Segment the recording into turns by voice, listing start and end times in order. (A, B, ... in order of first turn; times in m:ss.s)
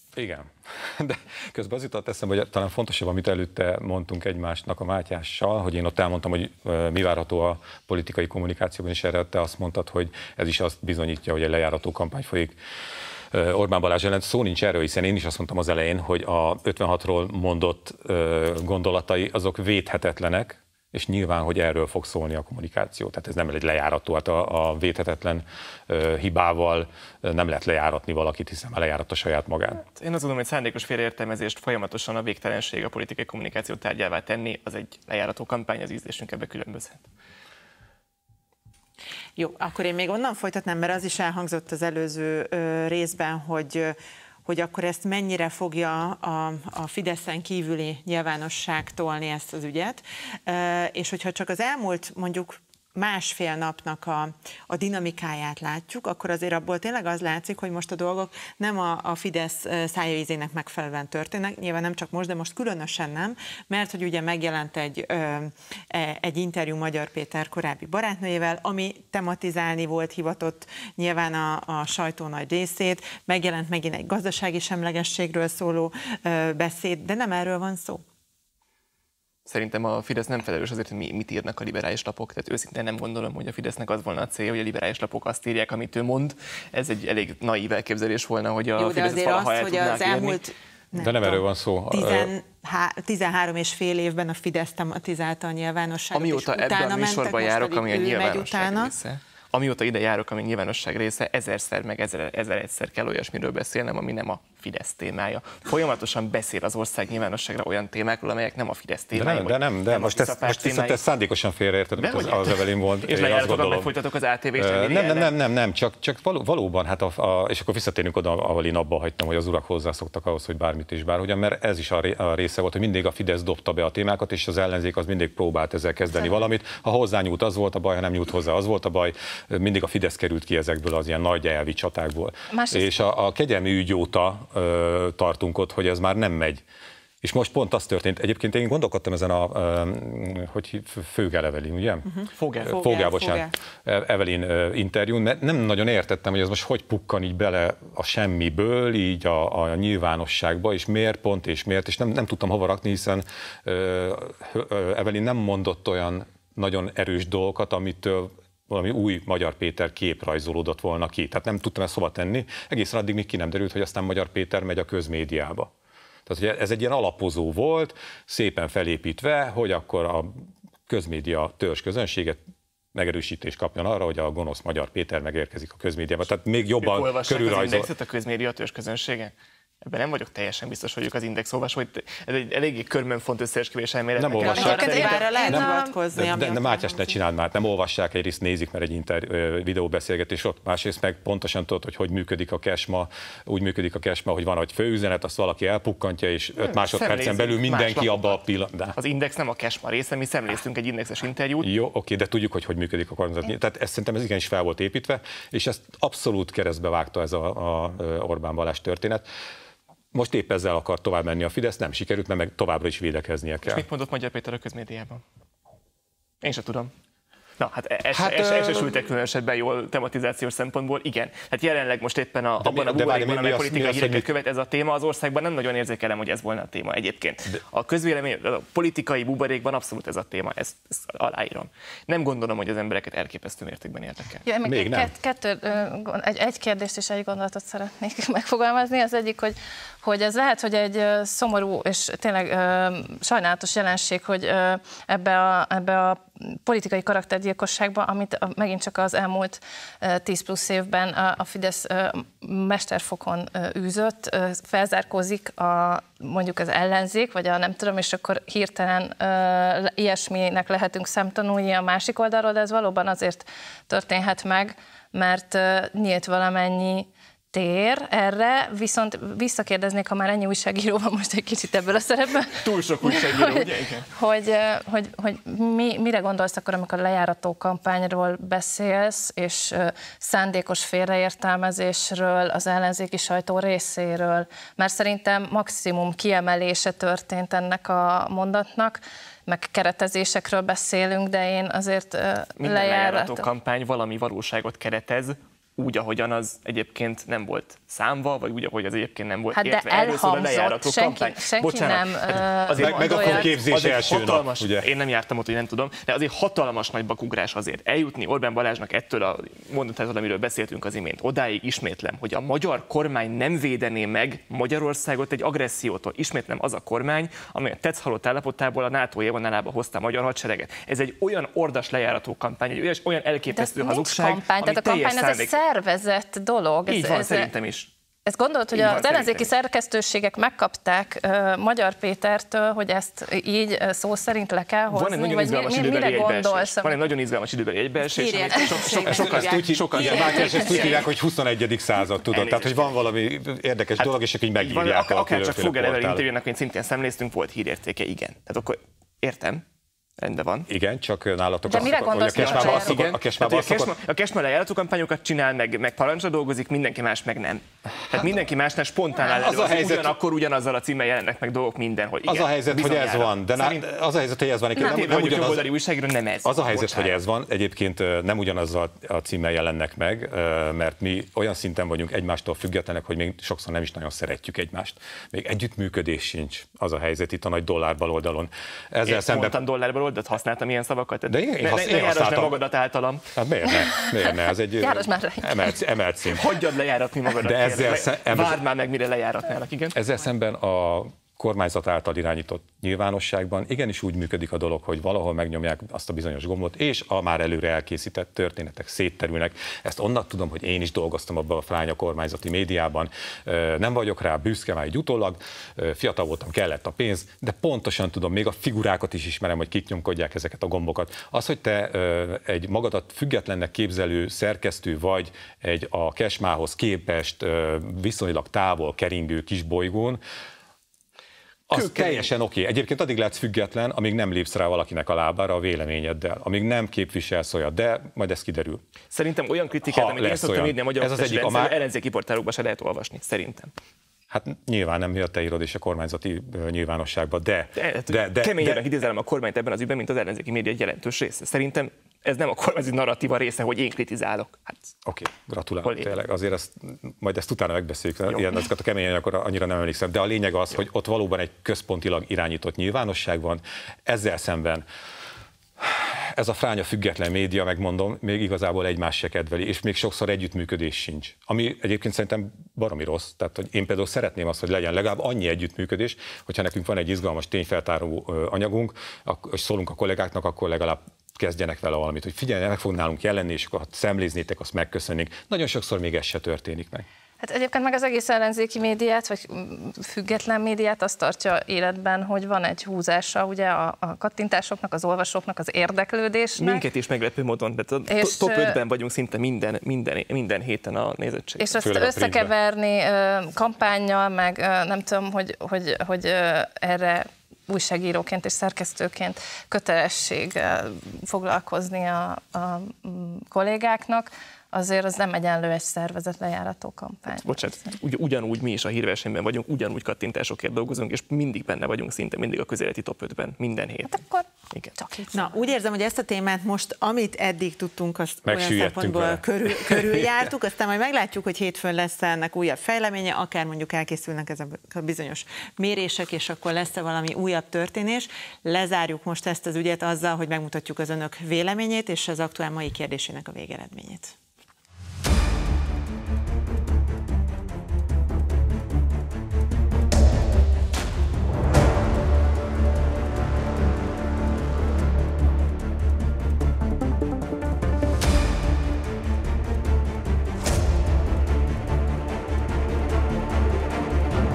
0:00.1-0:12.5 A
0:13.3-0:29.8 A
0:30.0-0:37.0 B
0:39.4-0:43.9 C
0:44.4-1:18.0 C
1:19.4-1:30.4 B
1:28.8-1:38.9 C
1:30.9-1:32.3 A
1:36.1-1:51.0 B
1:49.1-1:53.9 A
1:52.0-1:55.3 B
1:54.6-2:16.6 A
2:12.5-2:13.0 D
2:17.2-2:22.0 A
2:22.1-2:23.5 C
2:22.4-2:22.8 B
2:22.6-2:45.7 A
2:46.3-2:52.4 A
2:52.9-2:57.9 A
2:56.8-2:59.3 B
2:59.8-3:05.3 B
3:04.2-3:19.0 A
3:04.4-3:07.2 C
3:04.6-3:05.9 D
3:16.6-3:18.4 B
3:18.9-3:21.7 B
3:21.6-3:29.2 A
3:30.1-3:33.8 A
3:33.6-3:35.2 B
3:36.4-3:36.9 B
3:37.6-3:54.4 B
3:38.1-3:39.0 A
3:42.6-3:44.2 A
3:54.4-4:33.5 D
3:54.6-3:55.1 A
4:32.5-4:34.1 B
4:34.1-4:53.4 D
4:52.6-5:25.5 B
4:59.5-5:03.5 D
5:02.8-5:04.9 A
5:23.5-5:27.5 D
5:26.9-5:27.9 B
5:28.3-5:37.0 D
5:28.7-5:29.5 B
5:34.9-5:41.0 B
5:38.0-5:41.0 C
5:39.1-5:46.2 A
5:42.2-5:42.8 B
5:44.0-5:49.6 B
5:50.2-5:50.7 B
5:50.7-5:53.9 A
5:51.6-5:53.0 D
5:51.8-6:03.8 B
5:59.2-6:00.1 A
6:02.2-6:05.7 A
6:04.8-6:07.2 B
6:06.4-6:19.6 A
6:19.0-6:23.2 B
6:21.3-6:22.6 A
6:23.3-6:26.4 A
6:23.9-6:25.8 D
6:26.3-6:30.0 B
6:27.4-6:28.6 A
6:29.9-7:00.2 A
7:01.7-7:08.8 A
7:01.7-7:02.3 B
7:09.1-7:13.7 B
7:09.8-7:11.8 A
7:14.3-7:18.8 A
7:17.8-7:24.9 B
7:25.0-7:34.8 A
7:25.8-7:26.1 B
7:35.8-7:57.0 A
7:57.4-8:06.8 D
8:06.6-8:11.8 B
8:08.1-8:08.8 D
8:11.6-8:27.9 D
8:11.8-8:12.5 A
8:27.3-8:34.9 B
8:34.1-8:34.4 D
8:35.0-8:35.4 D
8:35.3-8:54.3 C
8:38.4-8:40.4 A